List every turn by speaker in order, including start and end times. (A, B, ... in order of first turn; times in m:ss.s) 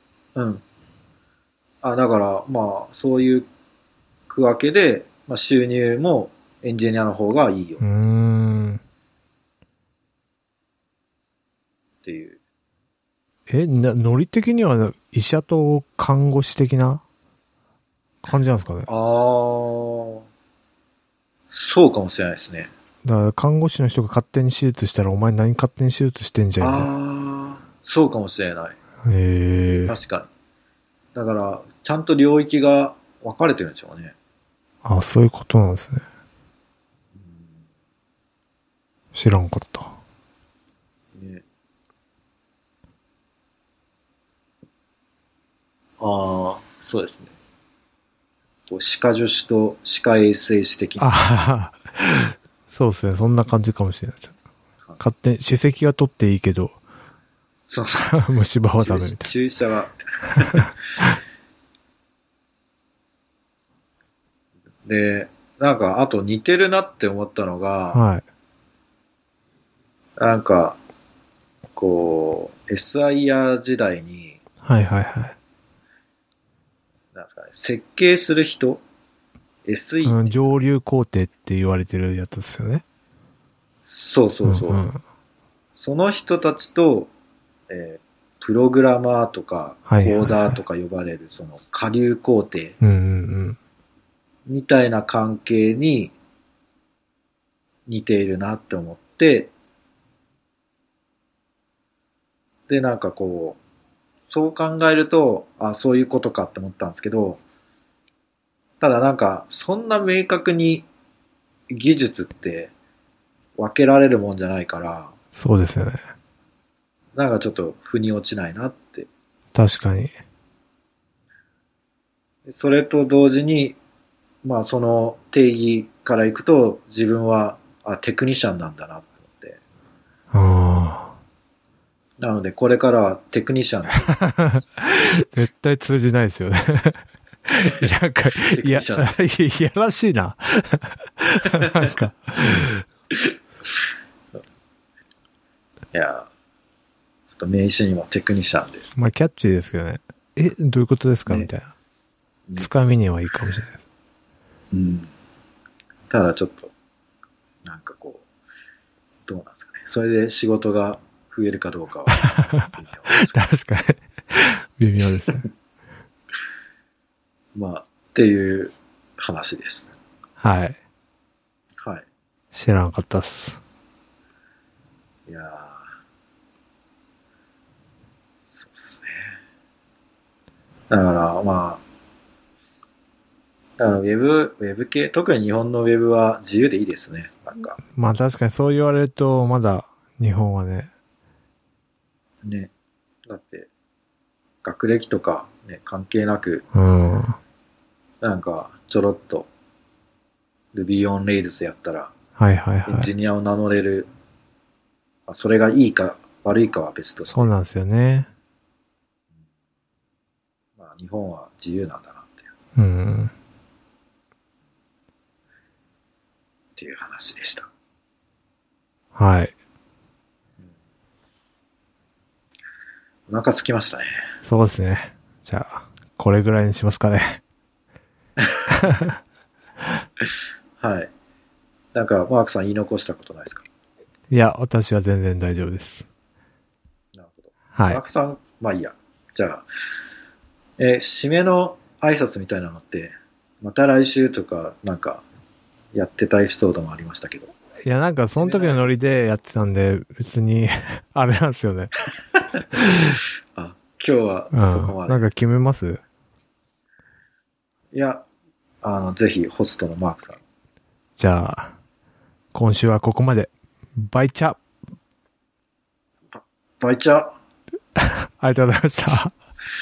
0:00.4-0:00.6 A
0:01.8-0:03.5 A
0:04.3-0:07.8 A
0:07.8-0:08.8 B
0:12.0-0:12.4 A
0:13.5-0:17.0 B
0:18.2-0:18.9 B
0:18.9-0:20.2 A
0:21.5-0:22.7 A
0:23.0-0:26.9 B
0:26.6-0:28.8 A
0:29.0-0:29.9 B
0:29.9-0:30.3 A
0:31.2-0:34.2 A
0:34.8-0:36.0 B
0:37.2-0:37.6 A
0:39.1-0:39.9 B
0:41.2-0:41.4 A
0:46.0-0:47.3 A
0:48.7-0:51.1 A
0:51.0-0:54.3 B
0:55.0-0:56.8 B
0:57.7-0:58.2 A
0:58.0-0:59.3 B
0:58.8-1:00.7 A
1:00.5-1:01.1 B
1:04.9-1:08.0 A
1:07.9-1:08.2 B
1:10.2-1:10.8 A
1:11.8-1:14.4 A
1:14.6-1:15.4 B
1:17.1-1:18.8 A
1:19.6-1:20.6 A
1:20.0-1:22.8 B
1:23.9-1:24.8 A
1:24.4-1:25.0 B
1:25.8-1:27.1 A
1:27.7-1:32.8 A
1:29.9-1:30.6 B
1:32.8-1:33.6 B
1:34.5-1:36.1 A
1:37.9-1:39.5 A
1:42.7-1:43.6 A
1:44.3-1:47.4 A
1:48.8-1:50.9 A
1:51.7-1:52.7 A
1:53.6-1:55.1 A
1:55.4-1:56.0 B
1:57.2-1:59.1 A
1:59.5-2:00.1 B
2:02.5-2:03.8 A
2:04.4-2:09.6 A
2:10.3-2:11.2 B
2:12.2-2:14.2 A
2:14.2-2:22.8 B
2:18.5-2:19.2 A
2:21.5-2:21.8 A
2:25.9-2:26.3 A
2:27.4-2:28.9 A
2:29.0-2:31.7 B
2:32.6-2:33.8 B
2:34.7-2:35.1 A
2:36.1-2:36.7 A
2:37.6-2:38.2 A
2:39.3-2:43.4 A
2:42.2-2:45.4 B
2:47.6-2:50.0 A
2:50.4-2:50.8 B
2:52.5-2:53.6 B
2:55.3-2:55.9 A
2:58.5-2:59.4 A
3:00.9-3:01.8 A
3:03.8-3:07.8 A
3:08.0-3:10.9 B
3:12.4-3:12.7 A
3:13.3-3:13.7 A
3:14.6-3:16.7 A
3:16.7-3:17.4 B
3:18.2-3:19.5 A
3:20.7-3:22.1 A
3:22.4-3:23.1 B
3:22.9-3:24.1 A
3:25.3-3:27.5 A
3:27.3-3:28.3 B
3:30.8-3:32.5 A
3:32.8-3:33.3 B
3:36.8-3:37.7 A
3:39.2-3:39.5 B
3:43.3-3:44.2 A
3:44.4-3:47.4 B
3:48.4-3:48.8 A
3:48.7-3:49.1 B
3:50.8-3:51.1 A
3:51.9-3:53.6 A
3:54.3-3:56.1 B
3:57.2-3:59.6 A
3:57.8-3:58.0 B
4:00.8-4:05.2 A
4:05.9-4:07.5 A
4:07.8-4:11.9 B
4:08.4-4:09.0 A
4:12.8-4:13.2 B
4:13.6-4:15.2 A
4:14.5-4:16.0 B
4:17.9-4:18.3 A
4:18.8-4:20.4 A
4:21.2-4:21.7 B
4:22.5-4:24.6 B
4:26.3-4:27.3 A
4:28.0-4:29.3 B